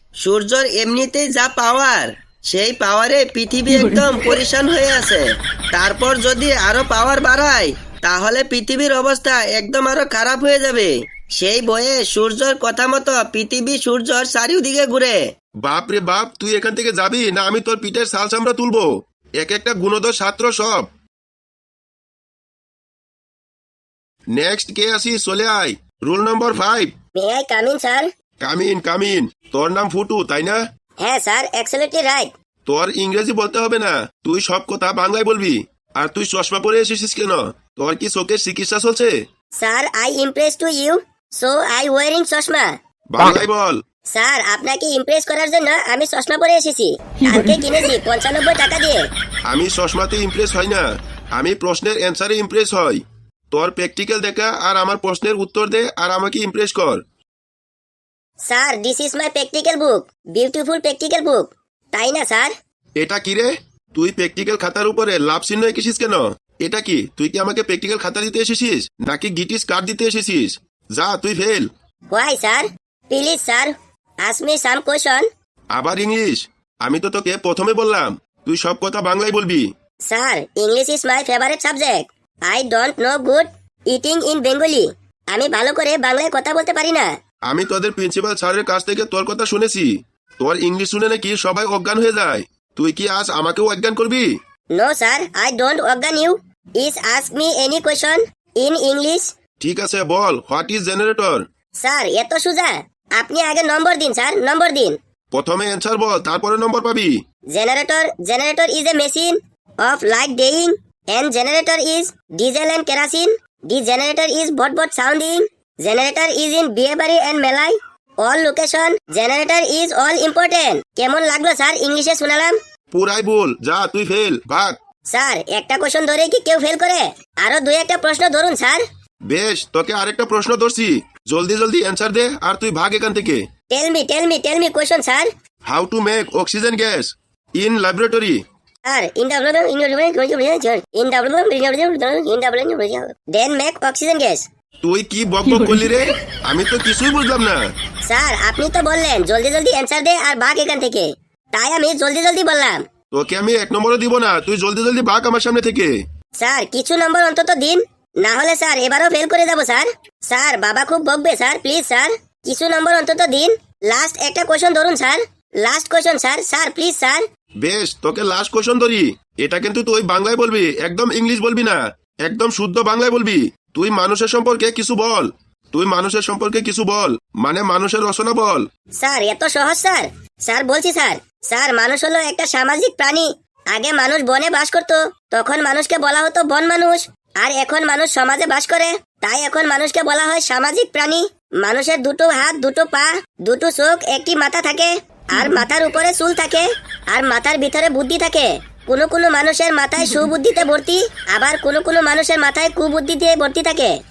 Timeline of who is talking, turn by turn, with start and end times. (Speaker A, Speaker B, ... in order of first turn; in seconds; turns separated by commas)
Speaker A: 0.2-15.2, Speaker B: 15.6-20.9, Speaker B: 24.3-26.9, Speaker C: 27.1-28.1, Speaker B: 28.4-30.6, Speaker C: 31.0-32.3, Speaker B: 32.6-39.1, Speaker C: 39.6-42.7, Speaker B: 43.1-43.8, Speaker C: 44.1-49.0, Speaker B: 49.5-57.0, Speaker C: 58.5-62.5, Speaker B: 63.0-71.7, Speaker C: 72.1-73.7, Speaker C: 74.2-75.3, Speaker B: 75.7-79.7, Speaker C: 80.1-87.1, Speaker B: 87.5-94.3, Speaker C: 94.7-99.3, Speaker B: 99.6-101.4, Speaker C: 101.8-105.0, Speaker B: 105.3-107.1, Speaker C: 107.5-122.5, Speaker B: 122.9-124.8, Speaker C: 125.1-128.8, Speaker B: 129.3-133.4, Speaker C: 133.7-135.3, Speaker B: 135.7-138.4, Speaker C: 138.8-144.4, Speaker B: 144.8-147.6, Speaker C: 148.1-152.8, Speaker B: 153.1-155.9, Speaker C: 156.4-167.2, Speaker B: 167.6-178.7, Speaker C: 179.0-203.9